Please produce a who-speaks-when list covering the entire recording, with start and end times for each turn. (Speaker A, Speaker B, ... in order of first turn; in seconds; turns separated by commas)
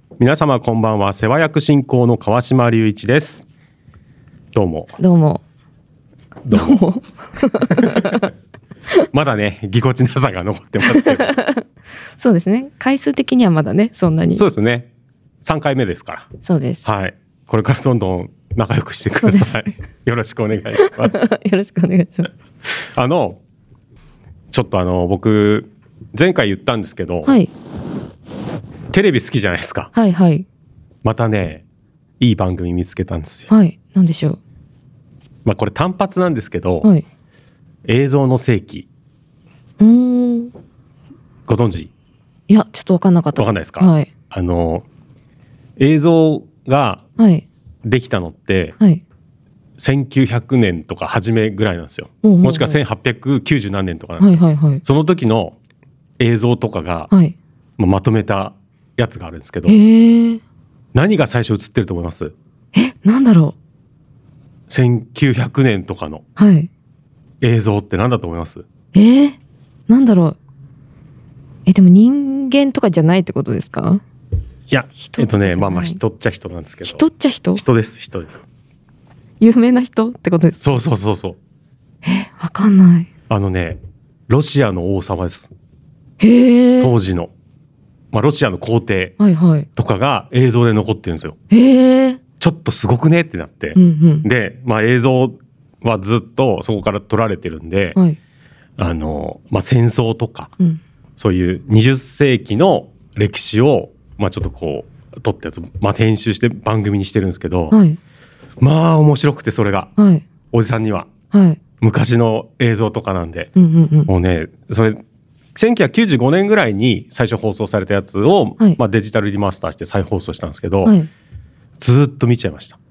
Speaker A: 0.2-3.4, Speaker A: 4.5-5.0, Speaker B: 5.0-5.4, Speaker A: 6.5-6.8, Speaker B: 6.5-8.3, Speaker A: 9.1-11.3, Speaker B: 10.8-11.6, Speaker B: 12.2-14.4, Speaker A: 14.4-14.9, Speaker A: 15.4-16.3, Speaker B: 16.4-16.9, Speaker A: 16.8-21.3, Speaker B: 19.2-19.6, Speaker B: 20.8-22.3, Speaker A: 22.9-23.4, Speaker A: 24.5-27.3, Speaker A: 28.9-29.9, Speaker B: 29.9-30.5, Speaker A: 31.0-31.6, Speaker A: 32.2-33.5, Speaker B: 33.5-34.4, Speaker A: 35.5-36.9, Speaker A: 37.9-38.9, Speaker B: 39.8-40.5, Speaker A: 41.5-41.9, Speaker B: 42.5-44.1, Speaker A: 43.4-44.9, Speaker A: 45.8-47.0, Speaker B: 47.2-47.5, Speaker A: 47.9-48.8, Speaker A: 49.8-55.6, Speaker B: 52.2-52.8, Speaker B: 54.2-54.8, Speaker A: 56.2-57.1, Speaker A: 57.8-59.8, Speaker B: 59.7-60.4, Speaker A: 60.9-62.3, Speaker B: 62.8-63.5, Speaker A: 64.7-66.2, Speaker B: 66.4-66.7, Speaker A: 67.4-68.6, Speaker B: 68.9-69.4, Speaker B: 69.9-70.4, Speaker B: 71.7-74.0, Speaker A: 74.7-77.0, Speaker B: 75.0-76.0, Speaker B: 76.8-77.6, Speaker A: 77.6-78.4, Speaker B: 79.4-80.7, Speaker A: 80.6-81.4, Speaker B: 82.0-83.1, Speaker A: 83.3-85.5, Speaker B: 86.2-86.9, Speaker A: 86.8-87.3, Speaker A: 88.1-89.2, Speaker B: 89.2-89.7, Speaker A: 89.8-91.4, Speaker B: 91.5-92.2, Speaker A: 92.4-98.0, Speaker B: 93.8-94.3, Speaker A: 98.8-100.5, Speaker A: 101.2-107.8, Speaker B: 107.7-108.0, Speaker A: 108.6-109.9, Speaker B: 110.0-110.2, Speaker A: 110.5-111.1, Speaker B: 111.3-111.6, Speaker A: 111.8-113.5, Speaker B: 113.6-114.1, Speaker A: 114.1-115.0, Speaker A: 115.5-121.0, Speaker A: 121.8-122.8